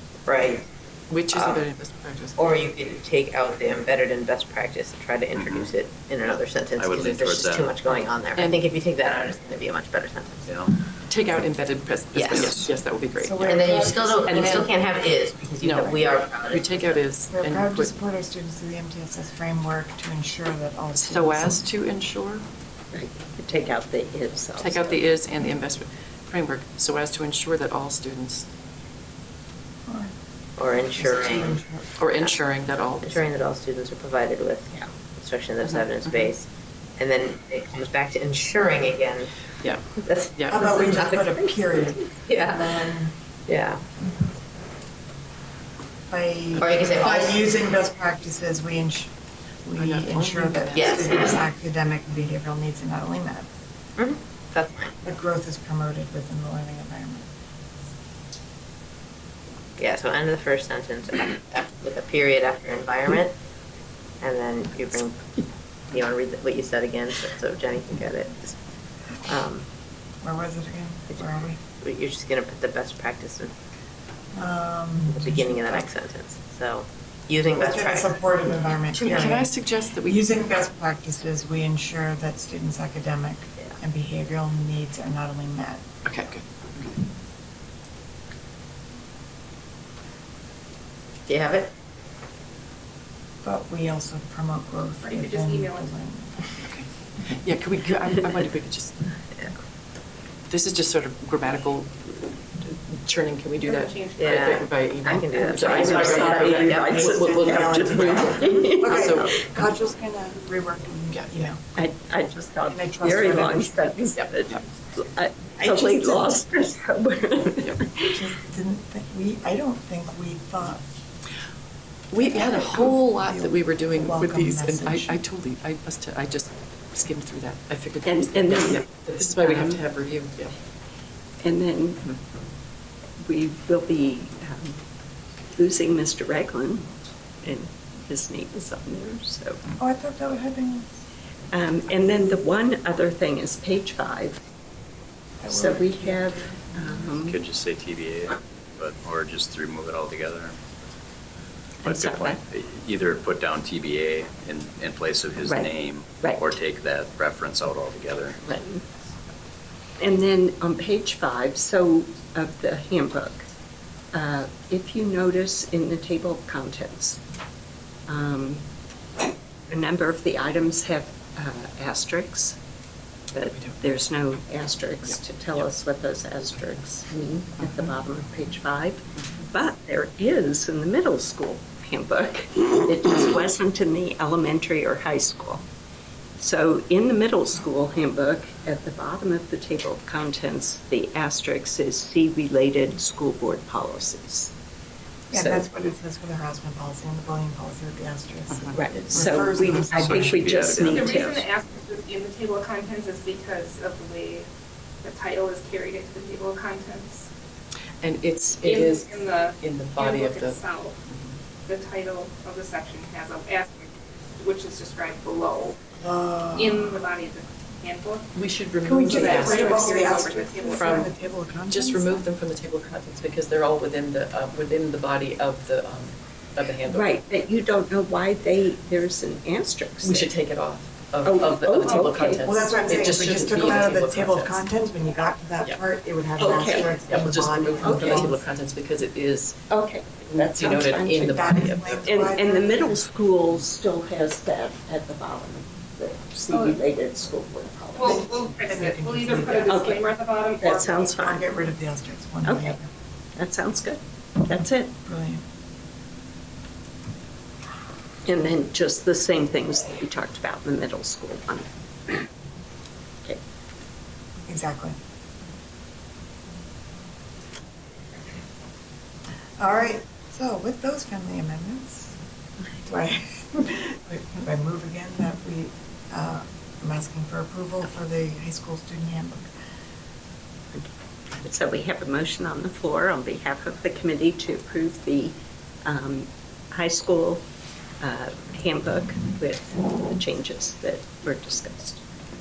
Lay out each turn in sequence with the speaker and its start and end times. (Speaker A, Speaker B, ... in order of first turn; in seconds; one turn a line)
Speaker A: 0.2-0.7
Speaker B: 1.1-2.6
Speaker A: 1.3-1.6
Speaker A: 2.4-10.5
Speaker C: 5.3-5.7
Speaker C: 6.8-7.7
Speaker B: 6.9-8.6
Speaker C: 10.5-10.7
Speaker B: 11.1-13.7
Speaker A: 12.1-12.6
Speaker D: 13.2-16.2
Speaker A: 13.4-17.0
Speaker B: 14.2-14.7
Speaker B: 15.6-17.9
Speaker D: 17.3-21.6
Speaker B: 20.9-22.4
Speaker E: 22.9-25.0
Speaker B: 24.6-28.5
Speaker D: 29.9-30.1
Speaker A: 30.6-31.6
Speaker D: 30.7-32.0
Speaker B: 32.0-33.2
Speaker A: 33.0-39.3
Speaker B: 35.6-36.3
Speaker A: 40.0-41.7
Speaker B: 40.3-40.7
Speaker D: 40.5-43.1
Speaker A: 42.2-42.9
Speaker A: 43.5-43.8
Speaker D: 46.1-49.1
Speaker A: 46.5-47.4
Speaker D: 49.6-53.5
Speaker B: 49.8-51.3
Speaker A: 50.7-51.3
Speaker A: 54.0-54.9
Speaker D: 55.0-57.3
Speaker A: 59.8-63.3
Speaker A: 64.2-68.6
Speaker A: 69.2-69.7
Speaker D: 70.2-71.6
Speaker A: 71.8-73.5
Speaker D: 74.3-75.8
Speaker A: 75.1-78.1
Speaker D: 77.5-85.8
Speaker B: 78.9-80.3
Speaker B: 86.0-87.0
Speaker A: 91.3-91.7
Speaker D: 93.4-96.5
Speaker F: 95.0-95.9
Speaker B: 96.6-99.1
Speaker B: 100.5-102.1
Speaker B: 102.6-109.3
Speaker F: 103.6-104.6
Speaker A: 104.2-107.2
Speaker E: 105.5-109.3
Speaker D: 105.8-111.7
Speaker B: 111.1-111.5
Speaker E: 111.7-118.1
Speaker D: 112.6-113.9
Speaker B: 114.2-114.6
Speaker D: 115.6-116.4
Speaker D: 118.1-120.8
Speaker B: 122.1-130.5
Speaker D: 122.1-125.2
Speaker E: 128.0-129.8
Speaker E: 131.4-132.2
Speaker E: 133.2-134.8
Speaker E: 135.6-136.9
Speaker E: 137.4-139.6
Speaker D: 139.8-140.9
Speaker E: 141.5-144.4
Speaker D: 145.4-146.9
Speaker E: 145.5-147.4
Speaker C: 147.2-150.9
Speaker E: 151.8-152.4
Speaker C: 151.8-158.6
Speaker E: 155.4-155.7
Speaker E: 156.2-156.6
Speaker E: 158.4-158.8
Speaker E: 160.0-163.5
Speaker E: 164.1-167.2
Speaker E: 168.1-168.6
Speaker E: 169.7-172.6
Speaker E: 173.3-185.6
Speaker B: 173.5-174.0
Speaker E: 186.4-194.5
Speaker D: 195.3-200.1
Speaker E: 195.3-195.7
Speaker B: 198.5-199.3
Speaker E: 198.7-201.5
Speaker C: 199.9-201.3
Speaker F: 200.8-204.5
Speaker F: 205.0-207.3
Speaker B: 208.0-211.3
Speaker F: 208.6-211.0
Speaker F: 211.7-215.8
Speaker D: 216.0-217.0
Speaker F: 216.5-218.3
Speaker B: 218.3-221.1
Speaker D: 218.8-222.2
Speaker F: 219.1-221.1
Speaker B: 221.7-227.1
Speaker E: 226.9-230.3
Speaker B: 230.0-234.6
Speaker E: 231.2-232.4
Speaker F: 231.8-232.1
Speaker D: 232.4-238.3
Speaker E: 233.5-233.8
Speaker E: 236.4-237.0
Speaker B: 236.7-239.6
Speaker E: 237.8-238.4
Speaker E: 239.7-241.4
Speaker B: 240.2-242.0
Speaker D: 241.2-243.0
Speaker E: 242.0-248.2
Speaker F: 246.5-246.8
Speaker F: 247.9-250.7
Speaker D: 248.0-249.8
Speaker E: 249.7-250.0
Speaker D: 250.6-252.9
Speaker E: 250.6-251.4
Speaker E: 252.4-252.8
Speaker E: 253.3-254.9
Speaker D: 255.0-255.4
Speaker E: 258.2-262.3
Speaker D: 264.5-265.0
Speaker D: 269.6-272.1
Speaker D: 272.8-279.5
Speaker E: 280.7-287.4
Speaker E: 288.0-292.0